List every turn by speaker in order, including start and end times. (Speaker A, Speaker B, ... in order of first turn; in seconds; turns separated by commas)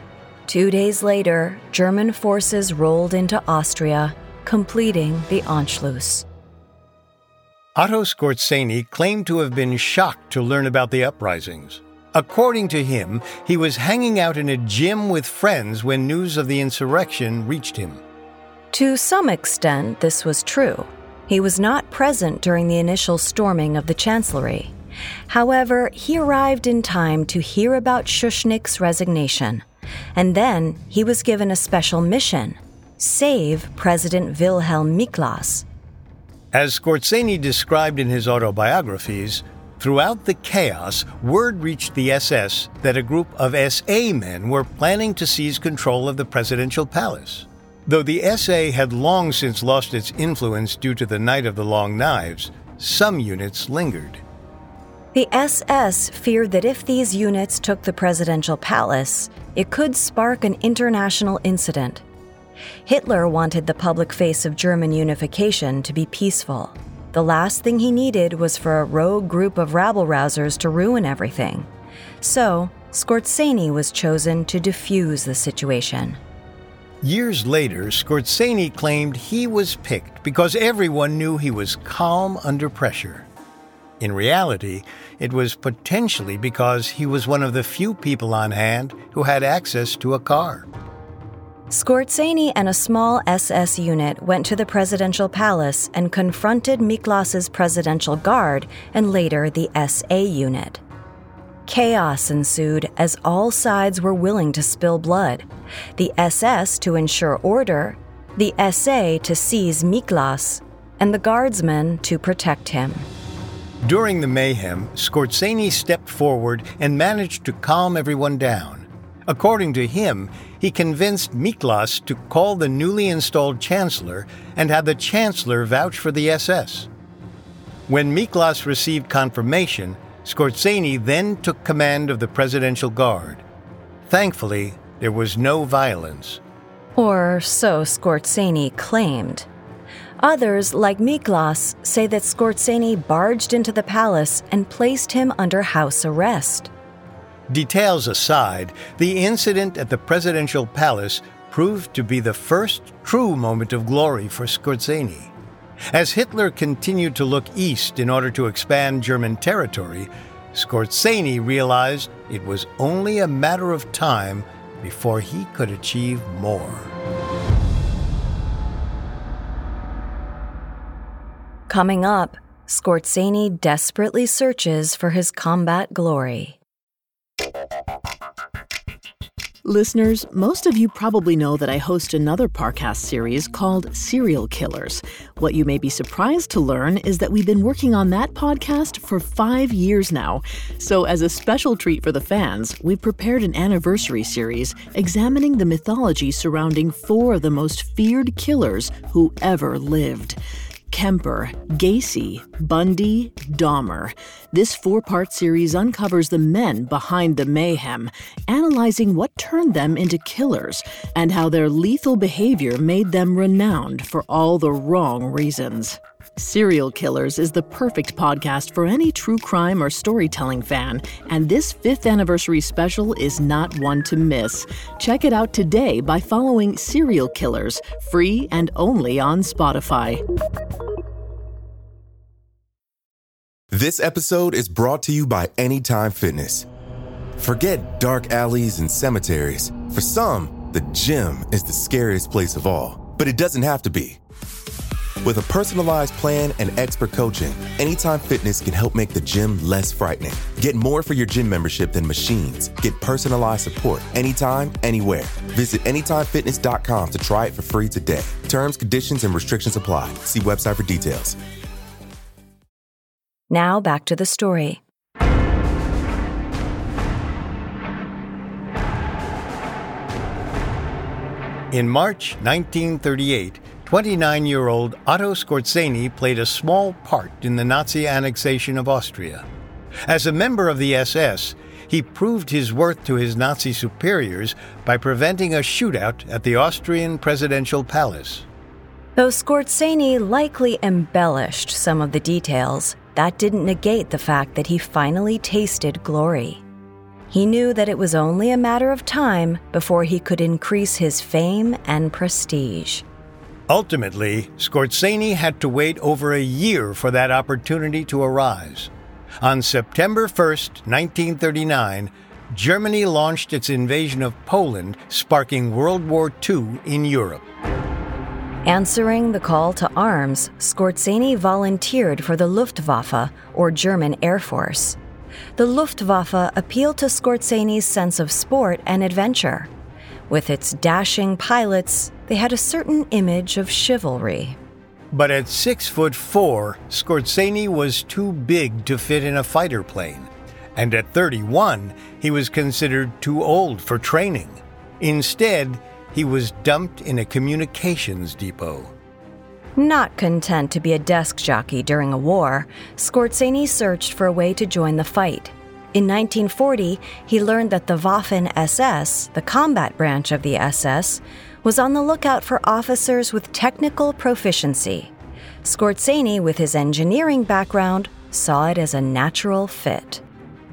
Speaker A: 0.5-6.2, Speaker B: 7.8-18.0, Speaker A: 18.7-24.7, Speaker A: 25.3-29.6, Speaker A: 30.1-35.6, Speaker B: 36.5-54.2, Speaker A: 55.1-62.0, Speaker A: 62.9-71.7, Speaker A: 72.2-76.2, Speaker B: 77.0-83.3, Speaker B: 84.0-90.7, Speaker A: 91.7-100.8, Speaker A: 101.7-105.5, Speaker A: 106.0-113.1, Speaker B: 113.8-126.9, Speaker B: 127.9-133.4, Speaker B: 134.1-136.4, Speaker A: 137.0-139.5, Speaker A: 140.2-146.7, Speaker B: 147.5-155.3, Speaker B: 155.9-166.9, Speaker A: 171.7-176.6, Speaker C: 179.6-200.4, Speaker C: 200.9-230.2, Speaker D: 233.7-236.7, Speaker D: 237.4-244.2, Speaker D: 245.2-261.4, Speaker A: 263.5-264.8, Speaker B: 271.7-279.5, Speaker B: 280.1-288.5, Speaker A: 289.2-296.6, Speaker A: 297.3-303.1, Speaker B: 303.7-308.9, Speaker B: 309.4-317.4, Speaker A: 318.6-325.0, Speaker A: 325.6-329.7, Speaker A: 330.3-334.6, Speaker B: 335.1-348.9, Speaker A: 349.8-365.1, Speaker A: 365.6-370.2